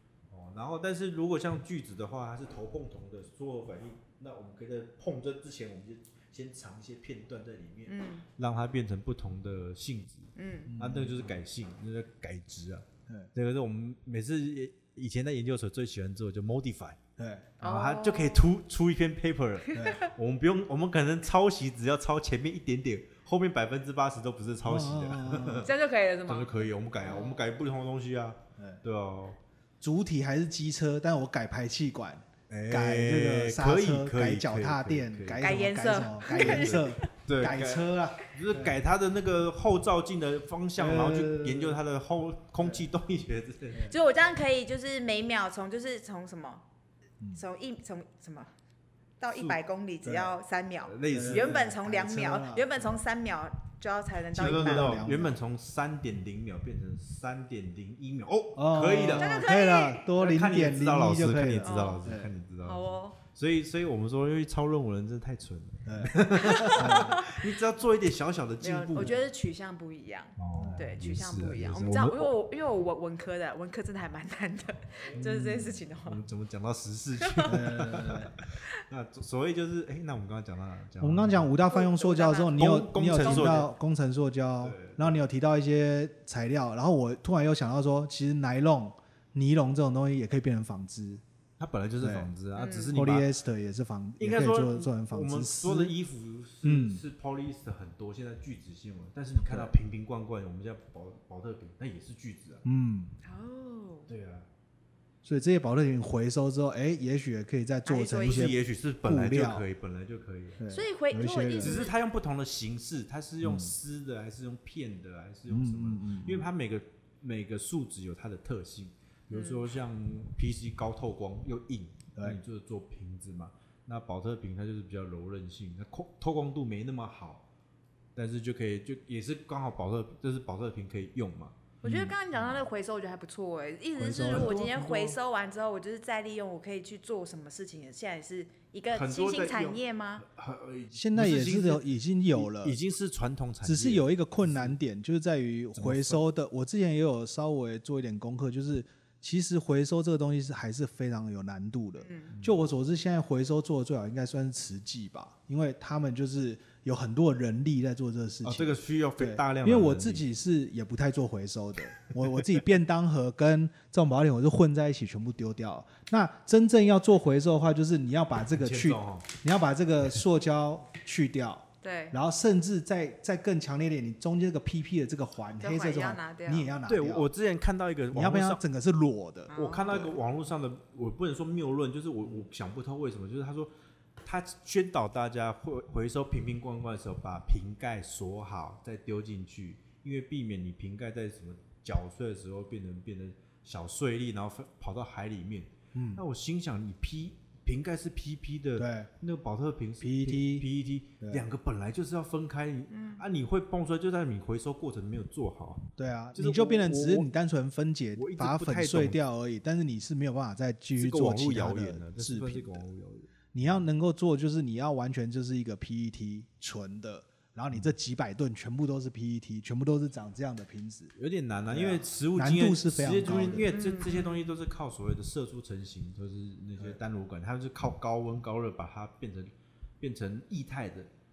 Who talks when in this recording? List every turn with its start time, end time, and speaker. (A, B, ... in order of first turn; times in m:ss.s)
0:00.3-0:17.0 A
0:07.9-0:08.2 B
0:10.4-0:10.7 B
0:10.7-0:11.4 C
0:17.2-0:17.5 C
0:17.6-0:18.5 B
0:17.6-0:25.7 A
0:19.7-0:20.1 B
0:19.7-0:20.0 C
0:24.6-0:25.7 C
0:25.6-0:27.4 B
0:26.2-0:29.4 A
0:28.6-0:28.8 C
0:29.8-0:38.7 C
0:32.5-0:35.7 A
0:35.4-0:37.1 B
0:36.2-0:43.9 A
0:40.8-0:41.8 C
0:42.6-0:42.8 C
0:43.9-0:46.6 B
0:47.3-0:48.5 B
0:49.2-0:55.0 B
0:49.3-0:49.6 A
0:50.0-0:50.4 C
0:50.8-0:51.6 A
0:51.1-0:53.0 C
0:54.3-0:55.4 C
0:54.4-0:59.4 A
0:58.6-1:02.3 C
0:59.1-1:00.0 B
1:00.2-1:09.2 A
1:01.6-1:03.2 B
1:05.8-1:07.2 C
1:06.4-1:07.4 B
1:08.6-1:16.2 B
1:10.4-1:12.3 A
1:10.5-1:10.9 C
1:15.1-1:21.5 A
1:15.2-1:15.8 C
1:17.2-1:17.5 B
1:17.4-1:18.3 C
1:21.0-1:31.2 C
1:21.7-1:22.6 B
1:22.6-1:23.7 A
1:23.2-1:23.6 B
1:24.6-1:25.2 A
1:31.6-1:33.3 A
1:32.0-1:32.3 C
1:32.5-1:32.9 B
1:32.9-1:35.9 C
1:34.2-1:42.6 A
1:36.6-1:37.0 C
1:39.4-1:39.7 C
1:42.6-1:43.1 C
1:43.2-1:44.1 B
1:44.1-1:44.5 A
1:45.2-1:49.6 C
1:47.8-1:48.5 B
1:48.2-1:50.6 A
1:50.6-1:51.8 C
1:50.7-1:51.9 B
1:51.6-2:07.4 A
1:53.4-1:53.7 C
1:55.5-1:56.5 C
1:59.3-1:59.6 B
2:08.2-2:11.8 A
2:11.8-2:20.2 B
2:11.8-2:12.2 C
2:14.0-2:15.1 C
2:14.2-2:15.1 A
2:18.9-2:24.8 A
2:20.9-2:22.8 C
2:23.6-2:57.3 C
2:25.8-2:26.2 A
2:32.0-2:32.3 B
2:32.3-2:32.6 A
2:38.4-2:40.2 A
2:48.6-2:49.3 A
2:51.8-2:52.2 B
2:55.6-2:56.7 B
2:56.9-2:58.6 A
2:58.1-3:00.2 C
2:59.5-3:00.0 B
2:59.6-3:03.7 A
3:04.2-3:27.3 A
3:15.9-3:16.2 C
3:18.8-3:19.1 C
3:20.0-3:20.6 C
3:22.9-3:23.2 B
3:26.0-3:32.8 C
3:28.2-3:29.2 A
3:31.0-3:33.8 A
3:33.5-3:41.1 C
3:41.2-3:51.1 A
3:41.7-3:43.7 C
3:43.6-3:44.3 B